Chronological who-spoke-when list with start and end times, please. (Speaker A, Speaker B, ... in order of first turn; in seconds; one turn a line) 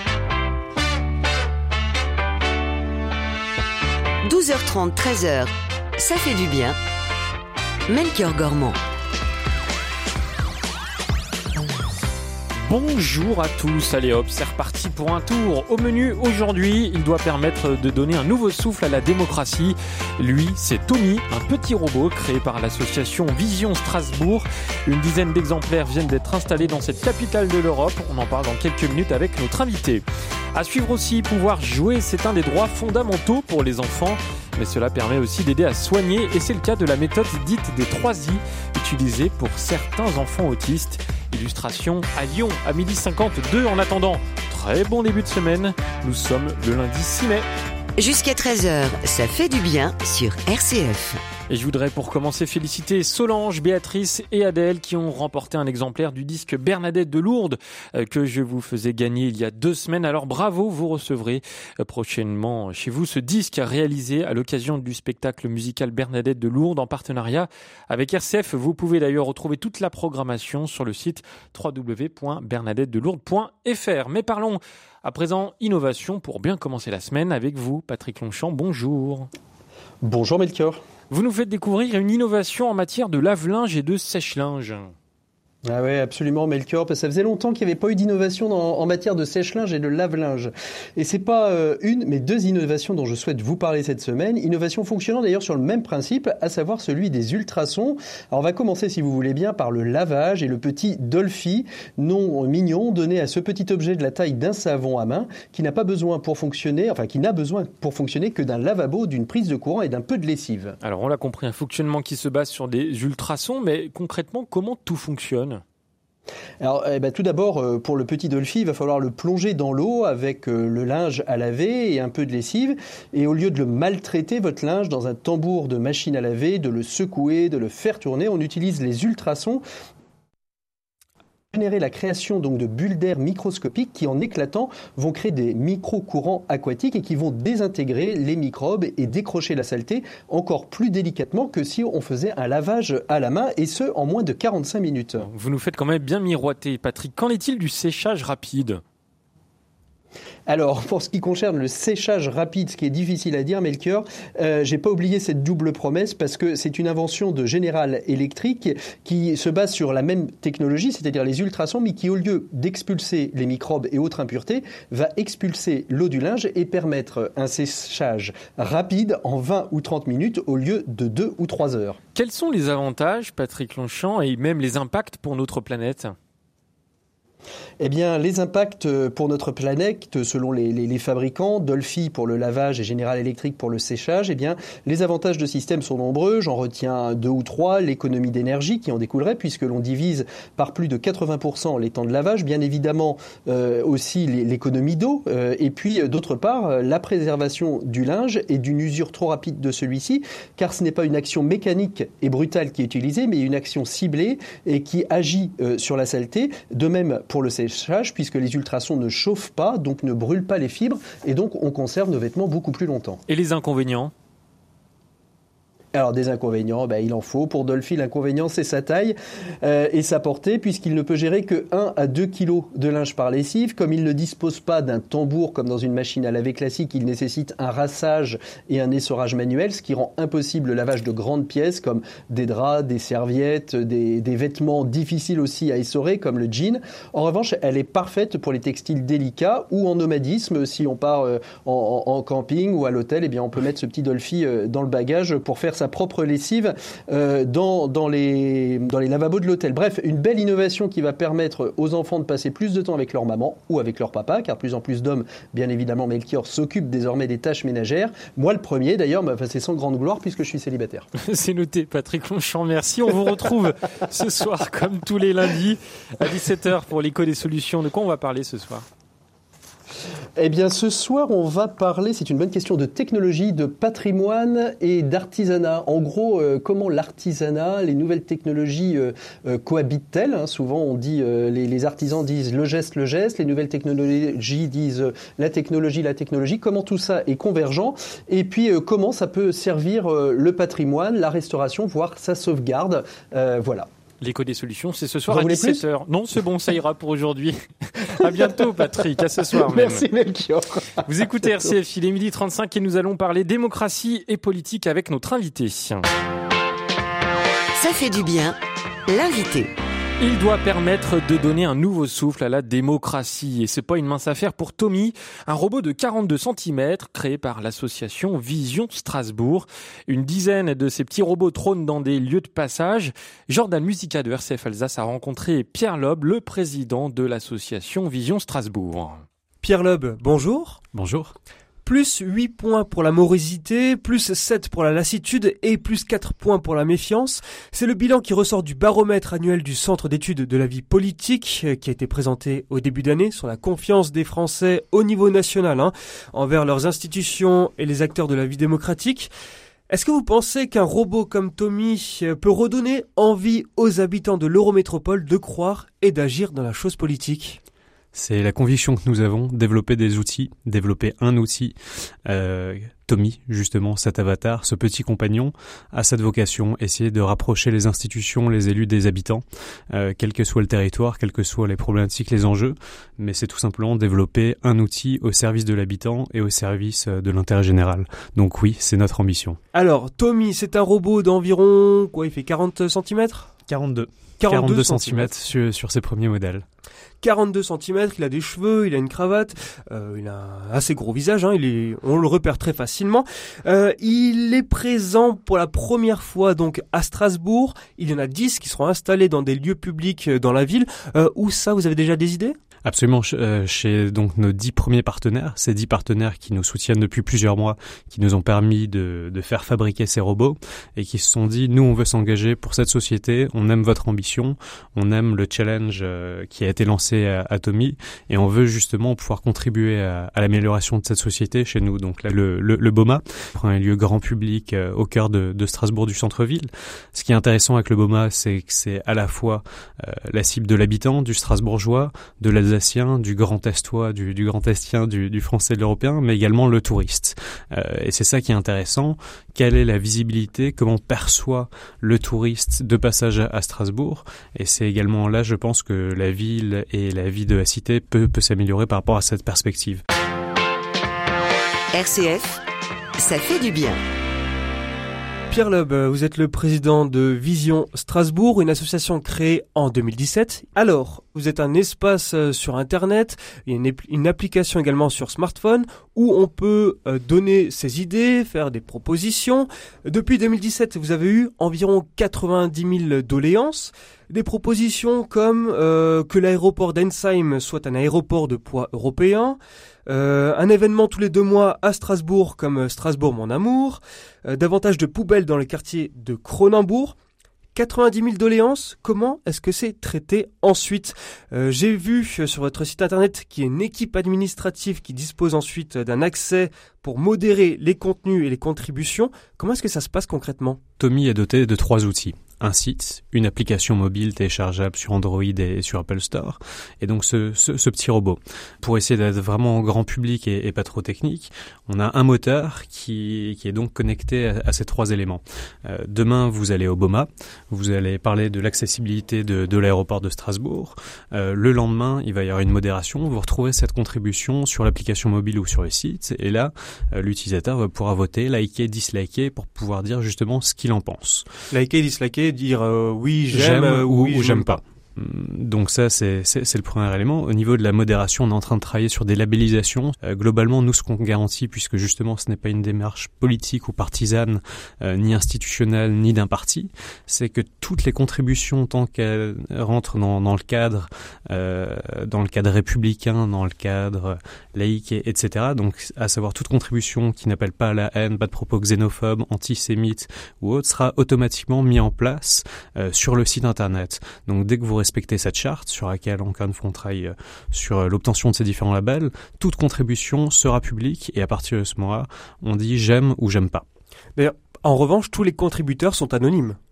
Speaker A: 4.2-6.8
Speaker A: 7.9-8.8
Speaker B: 12.6-30.0
Speaker B: 30.5-47.5
Speaker A: 48.0-51.2
Speaker B: 51.5-79.3
Speaker C: 80.0-80.8
Speaker B: 81.1-84.9
Speaker C: 85.7-110.8
Speaker B: 110.8-115.6
Speaker C: 116.6-129.6
Speaker C: 131.5-145.2
Speaker B: 145.2-148.8
Speaker C: 150.5-172.0
Speaker B: 172.1-176.1
Speaker C: 177.8-213.2
Speaker B: 213.3-214.1
Speaker C: 215.9-261.1
Speaker B: 261.2-268.9
Speaker C: 270.4-293.9
Speaker B: 294.2-300.0
Speaker C: 295.3-295.8
Speaker C: 299.4-301.7
Speaker B: 301.1-306.0
Speaker A: 307.7-309.7
Speaker B: 310.2-329.2
Speaker D: 329.6-330.8
Speaker E: 330.9-331.3
Speaker D: 331.8-349.3
Speaker D: 349.9-357.6
Speaker E: 358.1-361.8
Speaker E: 362.3-379.6
Speaker D: 379.7-383.5
Speaker E: 383.7-386.6
Speaker D: 384.4-385.3
Speaker D: 387.2-402.6
Speaker E: 402.8-450.0
Speaker A: 451.9-452.6
Speaker A: 453.2-454.0
Speaker D: 455.5-487.1
Speaker D: 487.7-500.8
Speaker E: 501.0-531.5
Speaker D: 531.7-534.8
Speaker E: 533.5-573.9
Speaker D: 574.4-576.8